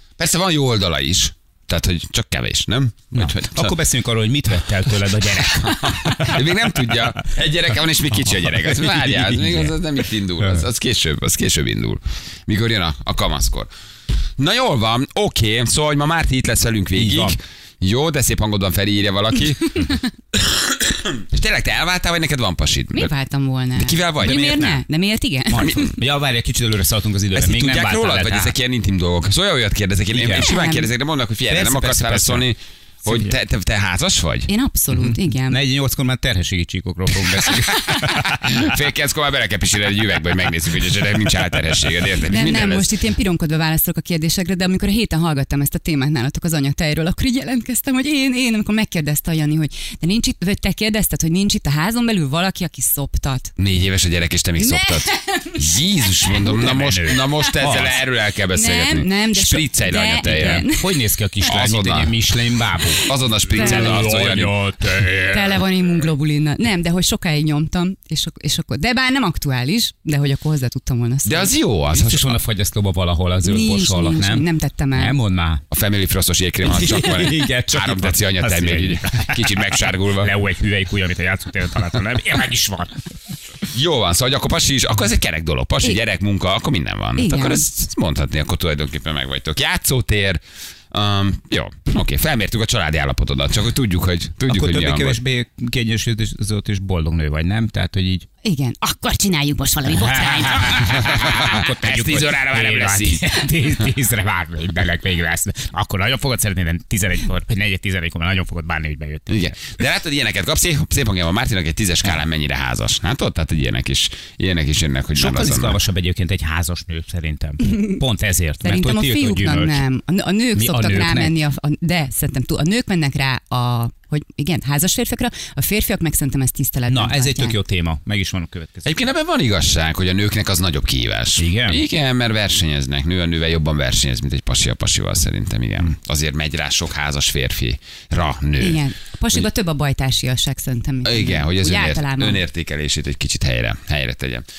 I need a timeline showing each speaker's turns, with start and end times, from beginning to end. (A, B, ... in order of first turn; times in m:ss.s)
0:00.2-0:03.8 A
0:03.1-0:07.1 B
0:05.4-0:13.7 A
0:08.4-0:10.6 B
0:14.4-0:23.1 A
0:17.0-0:17.4 B
0:22.9-0:25.9 C
0:23.8-0:24.4 A
0:24.2-0:24.8 B
0:25.5-0:28.5 B
0:25.6-0:25.9 A
0:27.3-0:34.5 A
0:30.1-0:30.5 B
0:30.3-0:30.9 C
0:31.5-0:32.4 B
0:33.0-0:33.3 B
0:34.5-0:35.6 C
0:34.9-0:38.7 B
0:37.4-0:42.9 A
0:42.2-0:53.5 C
0:53.6-1:00.6 A
0:54.6-0:56.3 C
0:56.4-0:58.0 B
0:58.5-1:00.8 C
1:00.2-1:05.6 B
1:01.4-1:02.2 A
1:03.0-1:04.6 A
1:03.5-1:04.1 C
1:05.2-1:11.5 C
1:11.2-1:12.4 A
1:11.9-1:15.6 B
1:13.4-1:15.2 C
1:15.7-1:20.3 A
1:16.6-1:23.0 B
1:23.7-1:35.2 A
1:27.2-1:27.6 C
1:34.5-1:38.2 B
1:38.4-1:41.2 C
1:39.9-1:49.7 B
1:40.9-1:43.3 A
1:49.3-1:55.8 A
1:55.1-1:59.8 B
1:57.7-1:58.0 C
1:58.6-2:07.6 C
2:00.5-2:01.4 B
2:06.9-2:08.9 B
2:08.8-2:18.8 A
2:11.4-2:11.8 B
2:18.6-2:22.4 C
2:21.0-2:24.4 A